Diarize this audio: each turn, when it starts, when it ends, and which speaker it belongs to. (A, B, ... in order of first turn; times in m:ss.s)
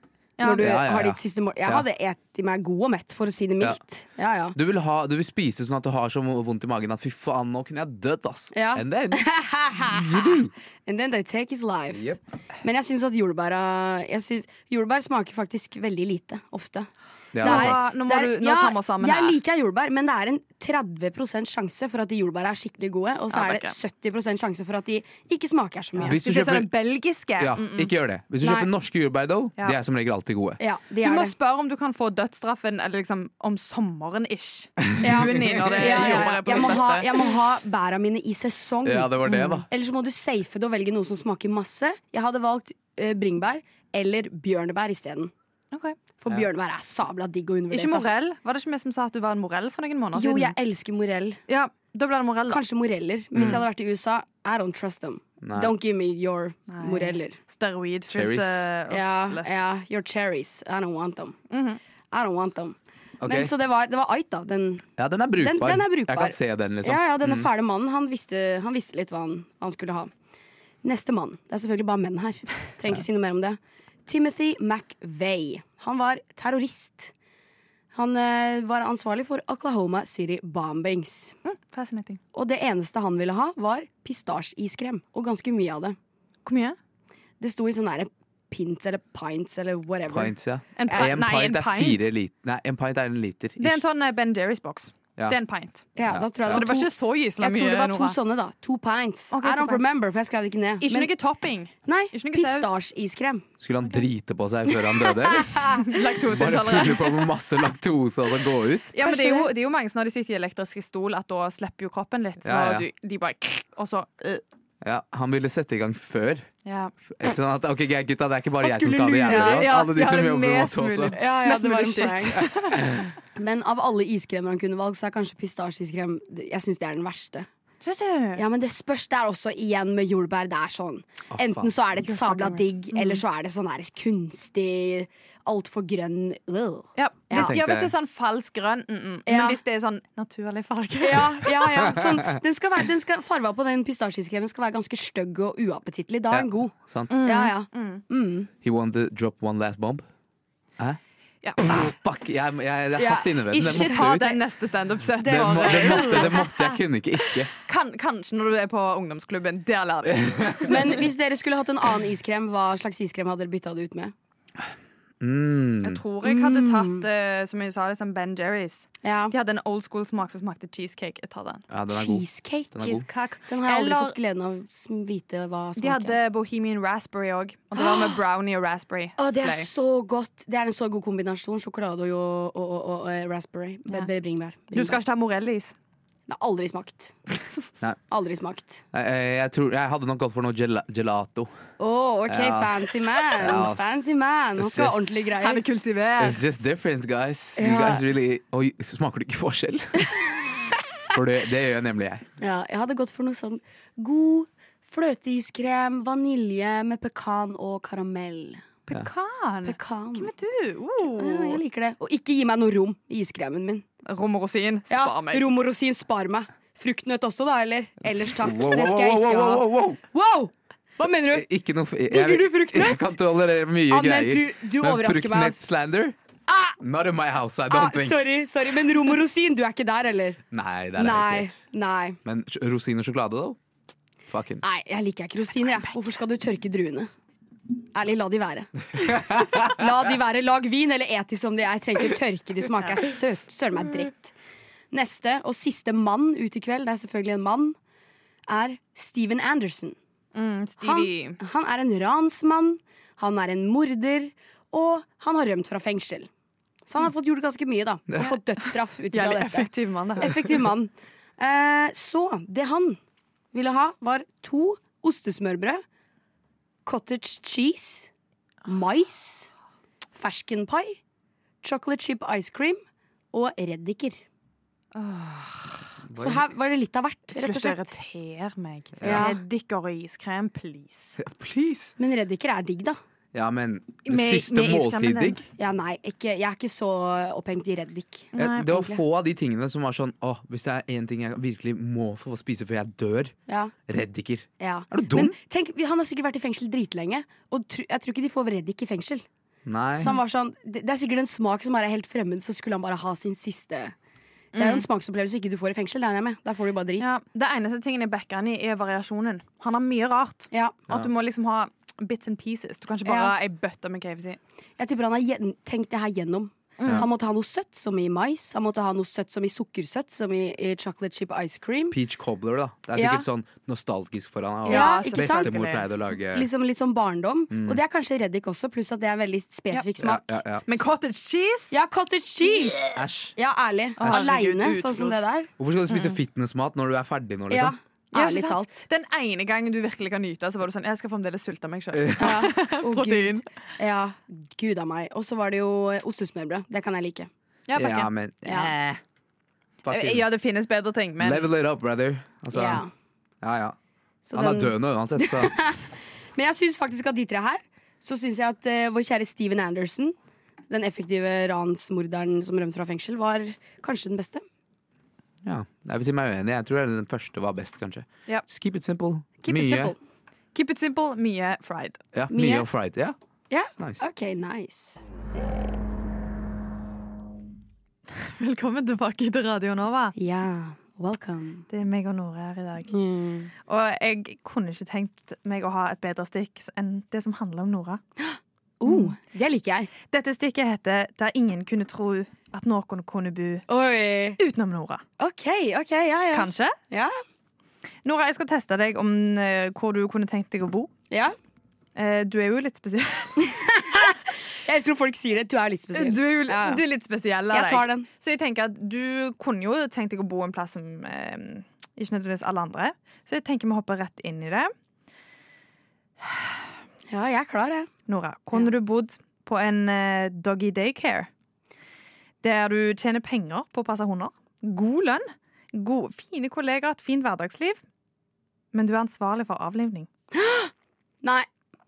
0:00.4-0:00.7 A
0:00.4-0:04.6 B
0:00.6-0:01.8 C
0:04.5-0:10.5 C
0:08.5-0:16.9 B
0:11.9-0:12.2 C
0:17.3-0:17.8 C
0:17.4-0:26.2 B
0:17.4-0:19.4 A
0:23.3-0:23.7 A
0:26.0-0:27.9 A
0:26.0-0:26.7 C
0:27.4-0:30.6 C
0:28.4-0:28.7 B
0:30.6-0:31.3 B
0:31.0-0:37.3 A
0:35.0-0:36.2 C
0:35.0-0:45.3 B
0:38.8-0:39.7 C
0:46.2-0:48.2 B
0:47.7-0:50.5 A
0:50.1-0:51.4 B
0:51.5-0:52.6 A
0:52.5-0:57.4 B
0:53.3-0:53.6 C
0:55.4-0:55.7 C
0:56.7-0:59.6 A
0:58.1-0:58.7 C
0:58.9-1:01.4 B
1:01.5-1:01.8 A
1:02.1-1:04.8 B
1:03.2-1:03.5 C
1:05.0-1:07.5 C
1:05.4-1:10.1 B
1:10.8-1:17.1 B
1:17.9-1:21.4 B
1:21.4-1:22.2 A
1:22.3-1:26.0 B
1:26.4-1:26.8 A
1:27.4-1:30.3 B
1:30.1-1:33.8 C
1:30.8-1:32.0 A
1:33.6-1:35.8 A
1:36.0-1:41.1 B
1:36.1-1:36.6 C
1:36.5-1:38.2 A
1:39.3-1:39.9 A
1:40.8-1:42.8 A
1:41.8-1:43.4 B
1:43.6-1:48.9 C
1:45.4-1:45.8 B
1:45.7-1:47.3 A
1:48.9-1:54.4 A
1:49.0-1:49.5 B
1:52.4-1:52.9 C
1:54.8-1:56.5 C
1:56.6-1:56.9 A
1:57.1-2:01.2 C
1:58.6-1:59.8 B
1:59.2-2:03.0 A
2:01.1-2:02.4 B
2:03.3-2:07.5 B
2:07.8-2:08.4 A
2:08.4-2:17.6 B
2:11.3-2:11.7 C
2:12.0-2:13.2 A
2:17.0-2:21.7 A
2:17.3-2:17.9 C
2:19.2-2:19.6 B
2:21.0-2:28.5 B
2:21.8-2:22.4 C
2:26.3-2:27.2 C
2:27.1-2:28.0 A
2:28.6-2:30.0 C
2:31.6-2:34.4 C
2:33.0-2:34.0 B
2:33.5-2:36.4 A
2:35.2-2:36.7 B
2:35.2-2:37.5 C
2:37.6-2:41.0 A
2:40.2-2:40.5 C
2:40.6-2:44.1 B
2:45.2-2:46.0 C
2:45.8-2:51.6 A
2:46.2-2:47.0 B
2:49.0-2:49.3 B
2:51.7-2:53.0 C
2:51.9-2:52.9 B
2:52.8-2:54.2 A
2:53.5-2:56.2 B
2:55.8-2:59.7 A
2:57.7-2:58.1 B
2:59.2-3:05.0 B
3:04.7-3:05.7 A
3:06.3-3:07.2 B
3:08.1-3:08.8 B
3:08.9-3:11.5 C
3:11.8-3:15.6 B
3:12.3-3:14.0 C
3:14.6-3:15.1 C
3:15.4-3:16.4 A
3:16.2-3:20.2 C
3:17.6-3:18.0 B
3:21.1-3:22.2 C
3:22.4-3:28.6 B
3:28.9-3:31.6 A
3:29.6-3:30.3 B
3:31.1-3:33.8 B
3:34.0-3:35.4 A
3:34.9-3:41.5 B
3:38.4-3:40.0 C
3:41.3-3:46.2 C
3:42.1-3:43.2 B
3:43.9-3:45.6 B
3:46.5-3:46.8 B
3:46.8-3:48.2 C
3:47.7-3:50.4 B
3:50.5-3:51.5 C
3:50.9-3:52.2 B
3:52.2-3:53.6 C
3:54.3-3:54.6 C
3:54.6-3:57.1 B
3:57.9-4:04.3 B
3:59.0-3:59.7 C
4:04.9-4:07.8 B
4:08.5-4:10.0 B
4:10.3-4:11.4 A
4:10.8-4:16.3 B
4:16.8-4:23.0 B
4:19.1-4:20.6 A
4:23.5-4:25.8 B
4:26.8-4:28.1 B
4:28.6-4:29.5 B
4:30.2-4:31.0 B
4:31.6-4:32.8 B
4:33.3-4:34.2 B
4:34.9-4:35.9 A
4:36.0-4:36.5 C
4:36.2-4:37.9 B
4:37.3-4:41.2 A
4:39.0-4:39.3 C
4:39.0-4:39.4 B
4:41.2-4:41.9 C
4:42.0-4:43.0 B
4:43.3-4:45.4 C
4:44.0-4:45.4 A
4:45.6-4:49.0 B
4:48.3-4:48.8 A
4:48.4-4:53.3 C
4:53.5-4:53.7 B
4:53.9-4:55.4 C
4:54.6-4:59.2 B
4:59.6-5:00.1 C
5:00.0-5:03.9 B
5:04.5-5:04.9 A
5:04.6-5:07.1 B
5:07.0-5:14.4 A
5:13.0-5:13.3 B
5:14.8-5:22.0 B
5:16.8-5:17.1 A
5:21.9-5:26.5 C
5:22.9-5:23.2 B
5:24.6-5:25.8 A
5:24.7-5:25.7 B
5:26.3-5:30.4 B
5:27.5-5:27.8 C
5:30.0-5:30.6 C
5:30.6-5:31.7 A
5:31.7-5:35.5 B
5:32.9-5:33.3 C
5:34.0-5:35.2 A
5:35.6-5:37.7 C
5:35.9-5:36.2 A
5:37.5-5:38.8 B
5:38.1-5:43.4 A
5:41.9-5:42.4 C
5:42.2-5:47.3 B
5:47.7-5:48.7 A
5:47.7-5:49.0 C
5:48.4-5:48.7 B
5:49.8-5:50.3 C
5:49.8-5:51.5 A
5:51.2-5:52.8 C
5:52.5-5:52.9 B
5:53.4-5:53.8 C
5:54.2-6:00.1 B
5:54.3-5:55.6 C
6:00.7-6:04.4 B
6:05.4-6:09.9 C
6:09.4-6:10.0 B
6:10.5-6:12.0 A
6:12.1-6:13.2 C
6:12.3-6:12.7 B
6:13.5-6:15.0 B
6:13.8-6:14.0 C
6:18.1-6:20.1 A
6:20.2-6:21.6 B
6:21.7-6:22.9 A
6:22.9-6:23.5 B
6:23.6-6:28.0 A
6:28.2-6:29.9 B
6:28.8-6:29.1 A
6:30.1-6:33.6 A
6:33.7-6:34.4 B
6:34.4-6:35.0 A
6:35.2-6:37.1 B
6:36.3-6:36.8 A
6:38.0-6:40.9 A
6:42.0-6:43.7 A
6:43.4-6:46.8 B
6:45.9-6:54.7 A
6:47.5-6:48.1 B
6:57.1-6:57.9 B
6:58.1-7:01.3 A
7:02.4-7:07.8 A
7:08.7-7:10.1 A
7:10.3-7:10.7 B